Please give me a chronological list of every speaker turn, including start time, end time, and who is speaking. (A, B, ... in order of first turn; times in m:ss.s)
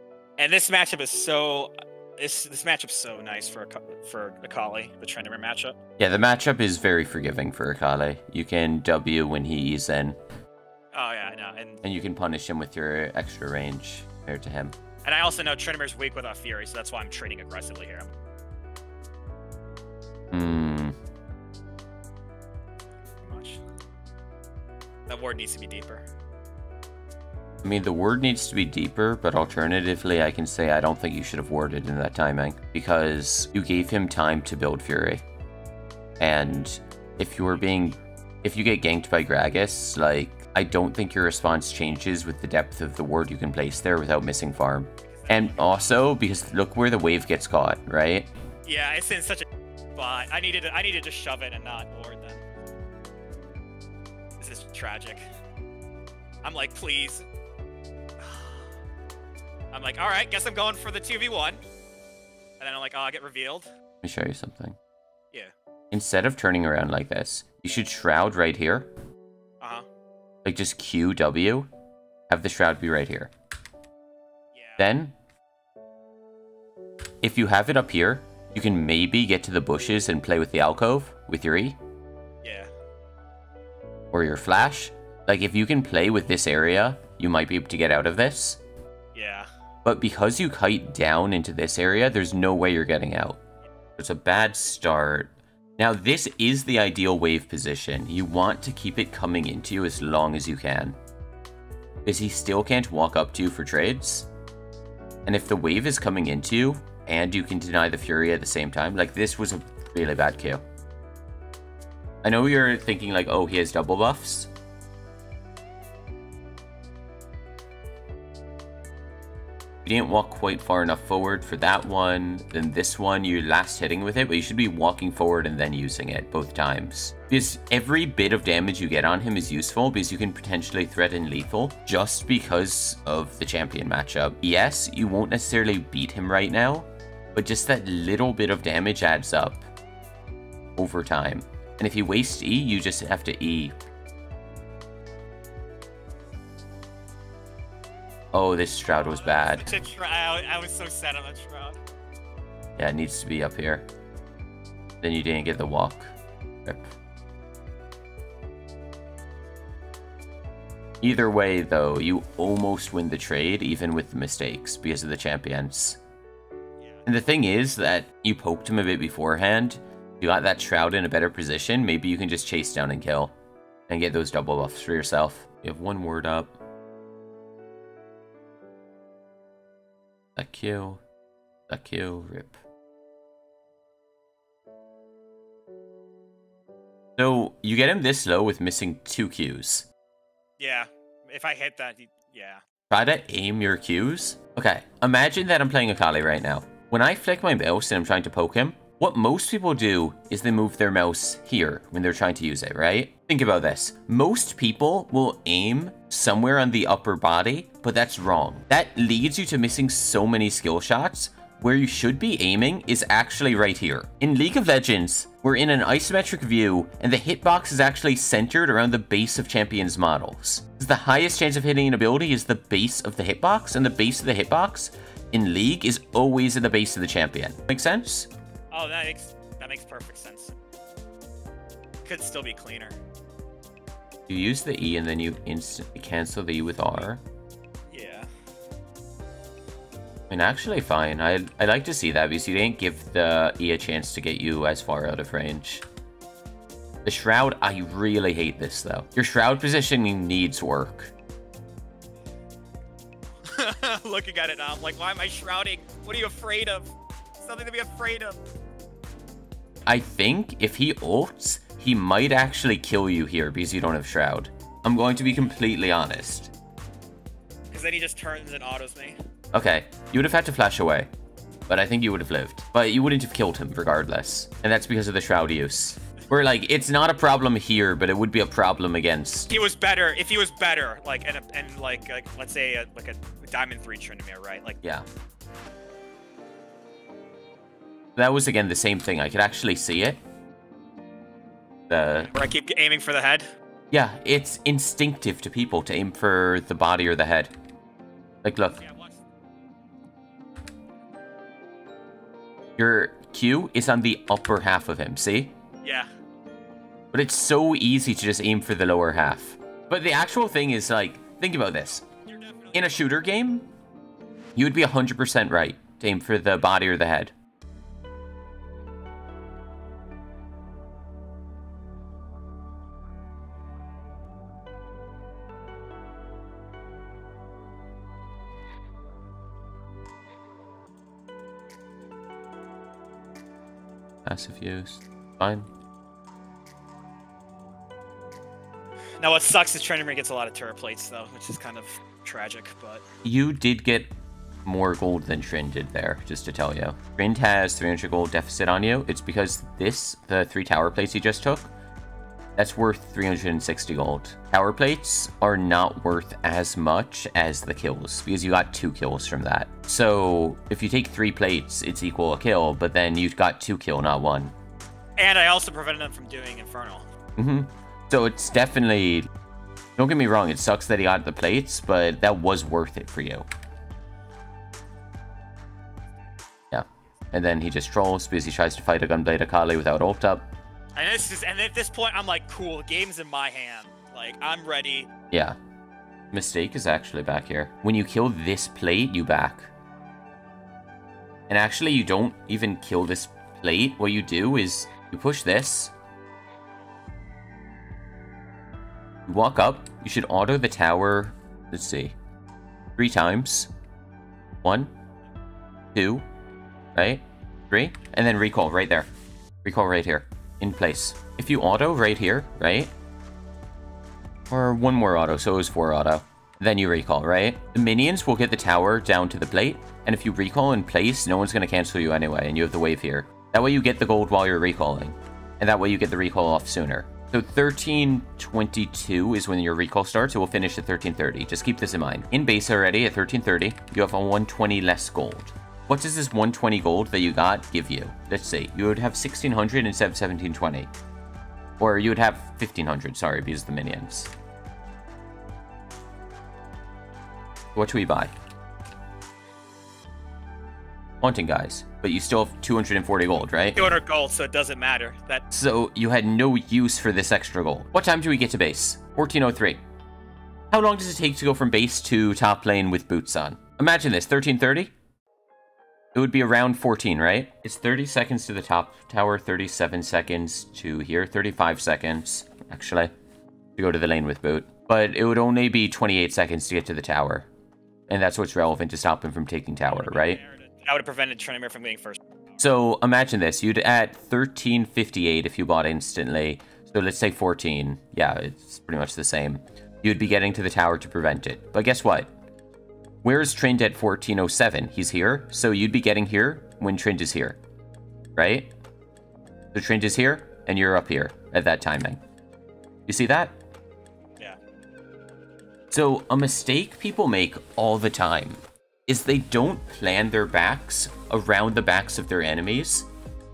0:00.4-0:05.8 A
0:06.0-0:10.2 B
0:10.9-0:11.8 A
0:11.8-0:14.7 B
0:15.0-0:18.1 A
0:20.3-0:21.0 B
0:23.2-0:23.6 A
0:25.1-0:26.1 A
0:27.6-0:35.2 B
0:36.2-0:48.3 B
0:45.1-0:46.1 A
0:48.6-0:52.4 A
0:54.4-0:55.2 A
0:56.4-0:57.3 A
0:58.2-0:58.7 A
0:59.7-1:01.6 A
1:02.6-1:03.7 A
1:04.0-1:04.8 B
1:05.9-1:08.9 B
1:09.6-1:09.9 A
1:10.4-1:11.7 B
1:12.3-1:13.3 B
1:14.5-1:14.8 A
1:14.8-1:15.1 B
1:17.2-1:21.8 B
1:22.4-1:22.7 A
1:24.1-1:28.6 B
1:29.1-1:29.5 A
1:29.8-1:33.4 B
1:34.0-1:41.0 B
1:42.0-1:44.3 B
1:45.2-1:50.6 B
1:52.2-1:54.5 B
1:59.8-2:19.6 B
2:20.8-2:23.7 B
2:28.3-2:29.8 B
2:28.9-2:31.8 A
2:32.8-2:33.8 B
2:35.0-2:36.9 B
2:41.0-2:46.0 B
2:46.8-2:47.0 A
2:47.0-2:53.3 B
2:53.9-2:56.5 B
3:00.4-3:01.0 B
3:01.7-3:02.6 B
3:07.2-3:09.9 B
3:10.6-3:12.6 A
3:12.9-3:48.3 B
3:48.7-3:50.6 A
3:52.0-3:53.0 A
3:54.3-3:57.2 B
3:57.9-3:58.3 A
4:00.3-4:05.8 B
4:07.0-4:11.1 B
4:13.4-4:18.4 A
4:19.9-4:26.5 B
4:27.7-4:29.2 A
4:29.5-4:31.1 B
4:31.7-4:39.5 B
4:39.5-4:44.8 A
4:48.2-4:50.2 B
4:51.9-4:52.3 B
4:52.2-4:53.5 A
4:53.9-4:57.5 B
4:58.4-4:58.8 B
4:58.8-4:59.2 A
5:02.8-5:05.6 B
5:05.8-5:06.1 A
5:07.1-5:12.0 B
5:12.0-5:13.1 A
5:12.7-5:13.6 B
5:14.6-5:17.3 B
5:34.2-5:35.7 B
5:39.2-5:43.0 A
5:43.2-5:44.1 B
5:44.6-5:51.7 B
5:52.6-6:04.5 B
6:05.2-6:07.1 A
6:07.4-6:09.3 B
6:10.0-6:13.5 B
6:16.7-6:20.5 B
6:21.0-6:25.1 A
6:25.3-6:25.6 B
6:26.3-6:29.7 B
6:31.5-6:35.9 B
6:39.3-6:42.1 B
6:43.0-6:43.7 B
6:44.6-6:44.9 B
6:45.9-6:46.2 B
6:46.9-6:49.1 B
6:49.6-6:52.9 B
6:54.5-7:20.9 B
7:21.8-7:24.3 B
7:27.7-7:28.3 B
7:31.2-7:34.0 B
7:33.8-7:35.4 A
7:35.5-7:39.8 B
7:40.7-7:44.9 B
7:46.1-7:53.1 B
7:53.8-7:57.5 B
7:58.1-8:00.4 B
7:59.9-8:02.2 A
8:02.6-8:12.3 B
8:13.2-8:17.6 B
8:18.4-8:18.7 B
8:19.7-8:22.2 B
8:23.1-8:23.5 B
8:25.9-8:33.1 B